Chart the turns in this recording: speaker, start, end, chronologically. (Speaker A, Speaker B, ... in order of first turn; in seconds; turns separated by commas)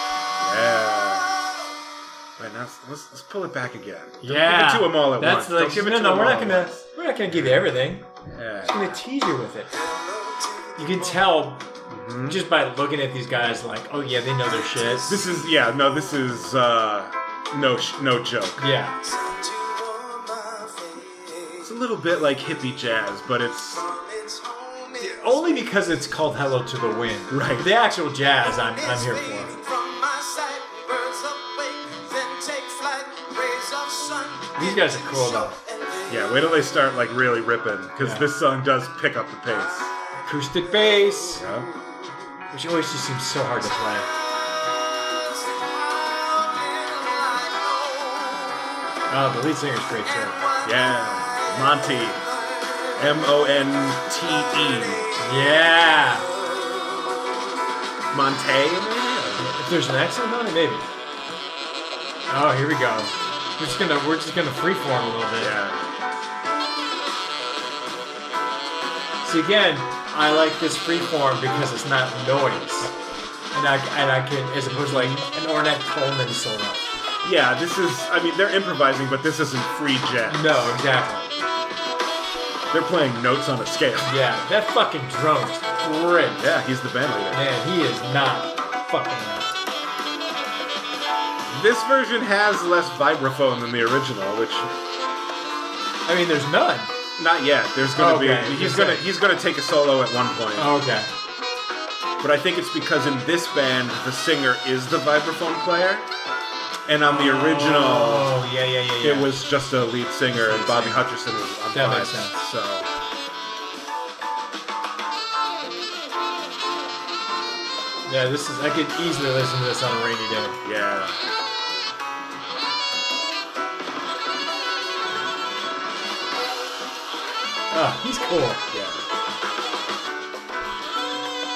Speaker A: 0.4-1.5, Speaker A: 2.4-6.8, Speaker B: 4.2-8.1, Speaker A: 8.2-9.0, Speaker B: 8.7-10.0, Speaker B: 10.8-11.7, Speaker A: 11.9-12.4, Speaker B: 12.2-15.2, Speaker A: 15.0-18.6, Speaker B: 18.6-19.2, Speaker C: 19.3-21.1, Speaker A: 21.6-24.0, Speaker B: 24.9-29.7, Speaker A: 27.3-27.7, Speaker C: 29.7-34.5, Speaker B: 34.5-35.6, Speaker A: 36.1-39.9, Speaker B: 38.0-38.3, Speaker B: 40.2-41.5, Speaker A: 41.4-41.9, Speaker B: 42.5-44.1, Speaker B: 49.1-50.5, Speaker A: 50.6-52.2, Speaker A: 52.9-55.1, Speaker B: 55.2-56.4, Speaker A: 58.1-59.6, Speaker B: 59.4-60.9, Speaker B: 62.3-65.6, Speaker A: 65.4-65.9, Speaker B: 69.2-72.9, Speaker B: 73.5-76.9, Speaker A: 74.9-75.2, Speaker A: 77.2-80.8, Speaker B: 80.3-81.3, Speaker A: 82.7-84.2, Speaker B: 84.0-86.5, Speaker A: 86.4-87.4, Speaker B: 87.3-89.6, Speaker A: 91.5-94.8, Speaker B: 96.1-96.9, Speaker A: 97.2-100.8, Speaker B: 97.9-99.0, Speaker B: 100.6-101.1, Speaker A: 102.2-106.1, Speaker A: 106.9-108.4, Speaker B: 107.0-109.3, Speaker A: 109.0-112.9, Speaker B: 110.3-111.0, Speaker B: 111.7-112.4, Speaker B: 118.1-120.6, Speaker A: 120.6-121.3, Speaker B: 127.7-128.7, Speaker A: 128.7-129.1